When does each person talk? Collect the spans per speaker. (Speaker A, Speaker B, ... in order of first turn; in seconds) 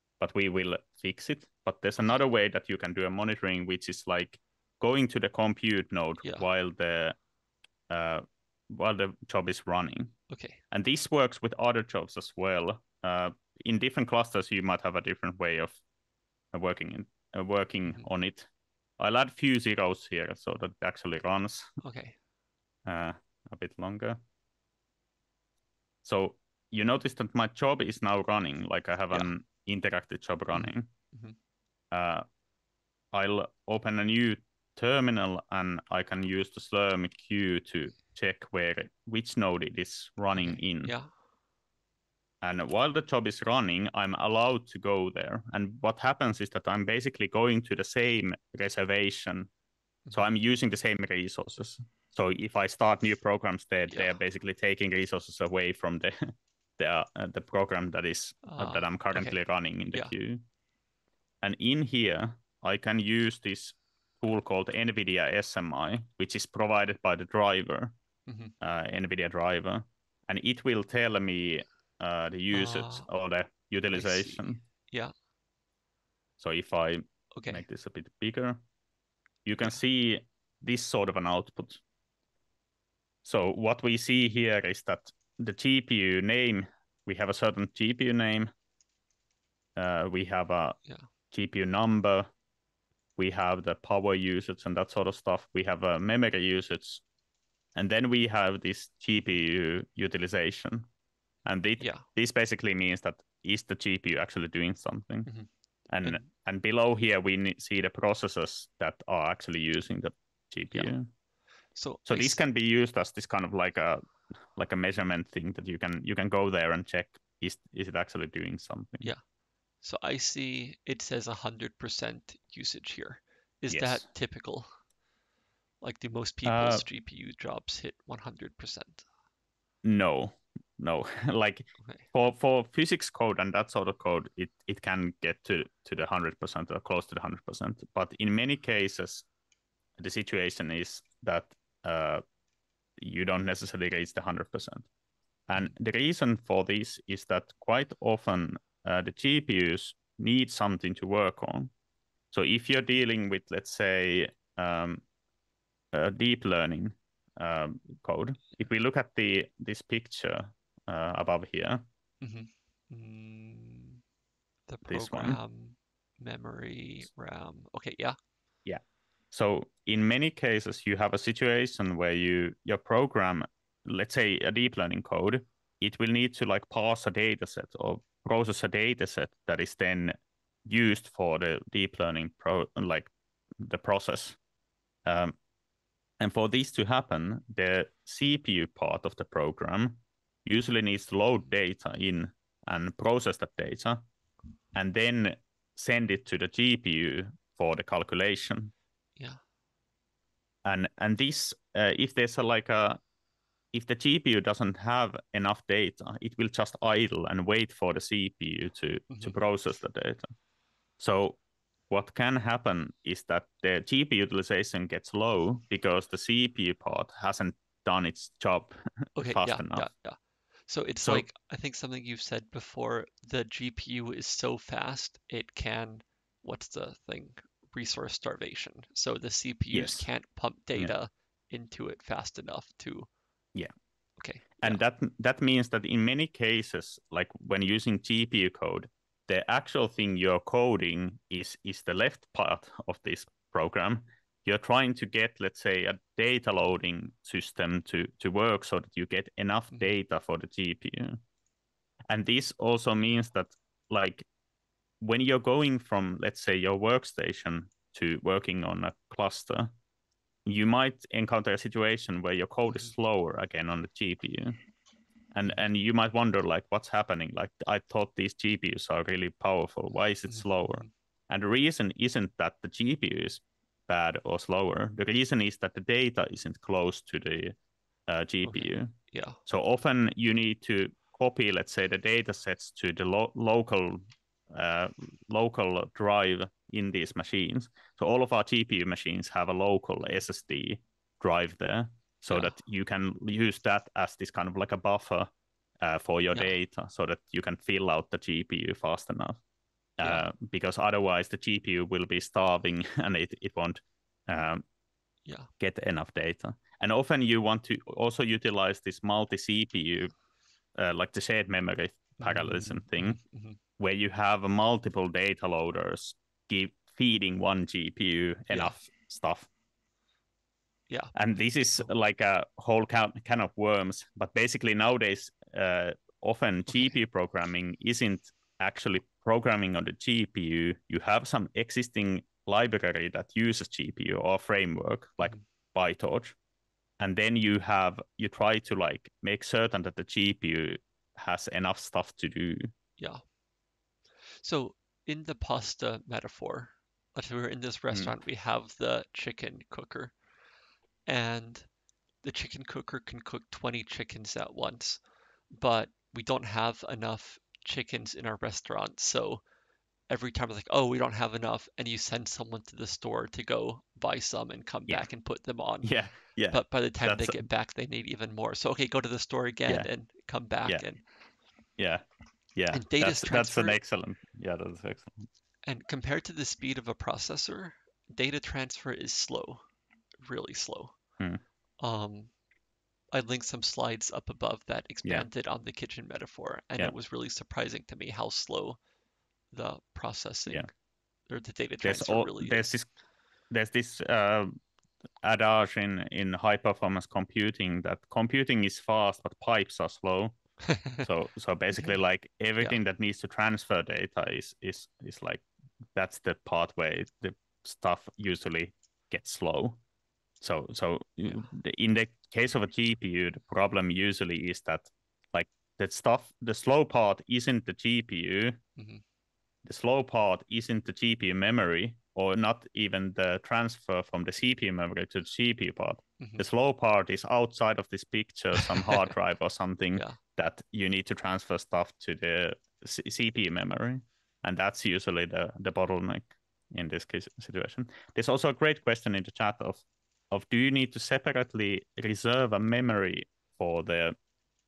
Speaker A: 0.2-7.2, 7.9-10.1, 10.7-15.8, 16.5-21.7, 22.8-24.2, 26.0-30.9, 31.9-32.2, 33.1-40.9, 42.4-49.5, 50.1-60.4, 61.4-67.9, 68.6-74.6, 76.4-78.6, 79.4-81.8, 83.2-88.5, 89.8-90.8, 91.3-92.3, 93.2-97.0, 97.7-100.9, 101.4-105.3, 105.9-111.1, 112.1-119.1, 123.7-124.1, 126.4-126.8, 129.8-139.3, 140.0-142.2, 143.0-144.9, 145.5-151.7, 152.3-155.0, 155.9-161.8, 164.8-165.4, 168.7-184.4, 185.0-185.3, 186.2-194.0, 194.7-198.7, 200.6-203.0, 203.7-210.3, 211.0-219.9, 229.7-230.1, 234.6-251.2, 252.1-254.3, 255.0-259.7, 260.4-264.6, 265.3-277.6, 278.1-299.4, 300.0-304.6, 305.6-310.1, 310.8-313.2, 313.8-319.5, 321.1-336.4, 337.0-342.7, 365.8-367.4, 371.8-372.0, 372.5-375.2, 391.8-392.9, 393.5-394.5, 395.2-400.4, 400.9-405.4, 405.9-409.8, 410.4-418.6, 419.6-444.1
Speaker B: 10.3-10.6, 21.8-22.1, 30.5-31.3, 40.3-41.1, 53.9-54.2, 58.4-59.4, 68.3-68.5, 72.5-73.1, 73.9-75.1, 77.3-77.6, 101.8-102.0, 111.8-112.4, 119.8-124.7, 125.8-129.0, 162.2-164.0, 164.7-168.2, 209.1-209.4, 219.2-233.1, 234.2-234.8, 270.3-270.9, 278.4-279.4, 292.3-292.6, 312.2-313.6, 326.7-326.9, 344.4-350.1, 351.1-351.7, 352.2-355.0, 355.5-359.4, 360.1-365.9, 366.5-371.0, 372.7-373.8, 375.6-379.6, 380.2-380.9, 381.8-382.3, 383.1-388.8, 389.5-390.7, 391.3-392.7, 400.7-401.0, 418.8-419.0, 426.2-426.4, 428.6-429.1